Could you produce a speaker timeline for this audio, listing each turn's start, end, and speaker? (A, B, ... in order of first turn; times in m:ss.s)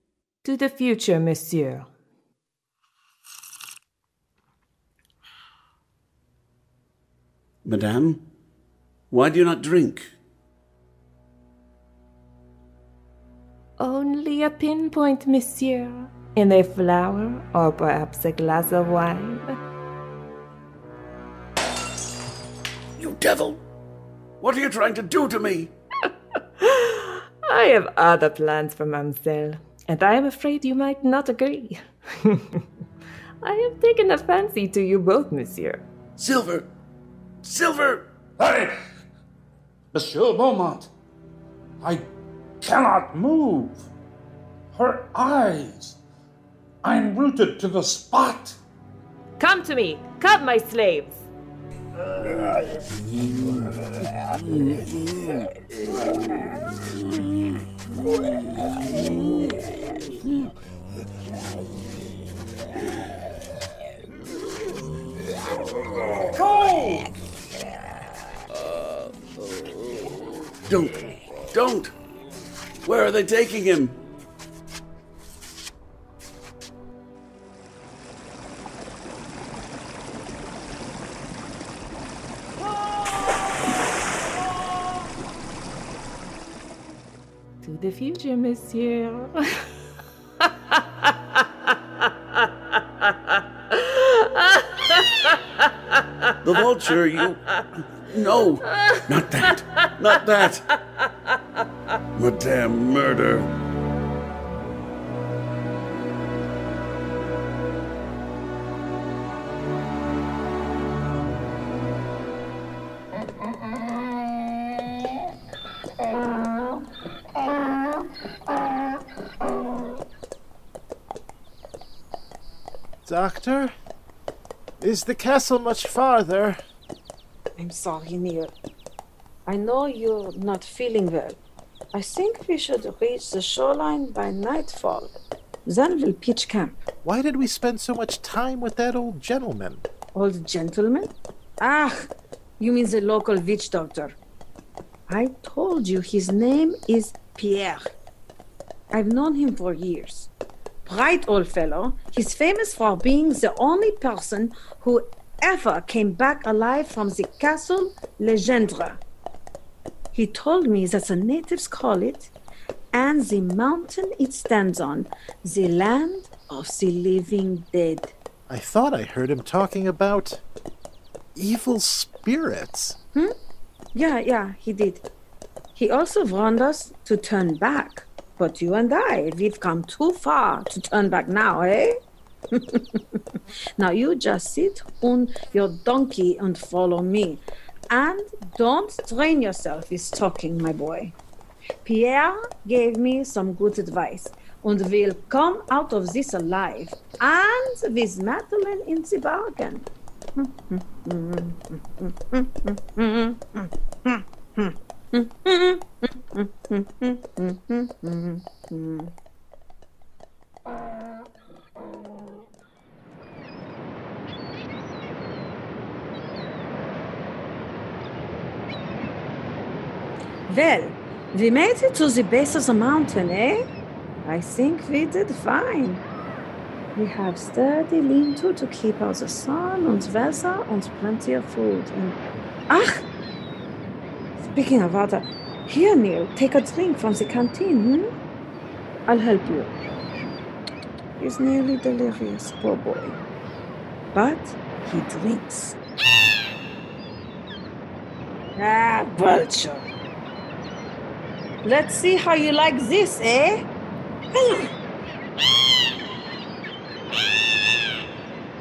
0:00.4-0:01.9 A
0:07.6-0:08.2 B
0:09.1-0:10.1 B
0:13.8-0:19.6 A
0:23.0-0:23.6 B
0:24.4-0:25.7 B
0:26.6-0:32.6 A
0:33.4-0:35.8 A
0:36.2-0:36.7 B
0:37.4-0:38.0 B
0:38.4-0:38.7 C
0:39.9-0:40.9 C
0:41.8-0:42.1 C
0:42.6-0:43.8 C
0:44.7-0:46.0 C
0:46.8-0:48.6 C
0:49.4-0:51.2 A
1:06.3-1:07.1 B
1:10.7-1:11.9 B
1:12.8-1:14.0 B
1:27.6-1:29.6 A
1:33.9-1:34.6 A
1:36.4-1:40.6 B
1:42.2-1:43.5 B
2:03.0-2:03.7 D
2:04.8-2:06.6 D
2:07.6-2:08.5 E
2:09.5-2:11.4 E
2:11.9-2:16.8 E
2:17.0-2:19.8 D
2:20.1-2:24.2 E
2:25.1-2:27.9 E
2:28.9-2:30.3 E
2:30.8-2:39.0 E
2:40.1-2:42.3 E
2:42.9-2:48.1 E
2:48.5-2:50.4 D
2:51.3-2:53.0 D
2:53.9-2:55.0 E
2:55.7-3:02.0 E
3:02.5-3:03.2 E
3:03.8-3:11.2 E
3:11.8-3:29.1 E
3:40.5-3:43.6 E
3:44.2-3:46.0 E
3:46.9-3:53.0 E
3:54.4-3:58.1 E
3:59.1-3:59.8 E
4:01.2-4:03.2 E
4:04.1-4:05.8 E
4:08.6-4:09.9 E
4:11.6-4:13.6 E
4:14.3-4:14.7 E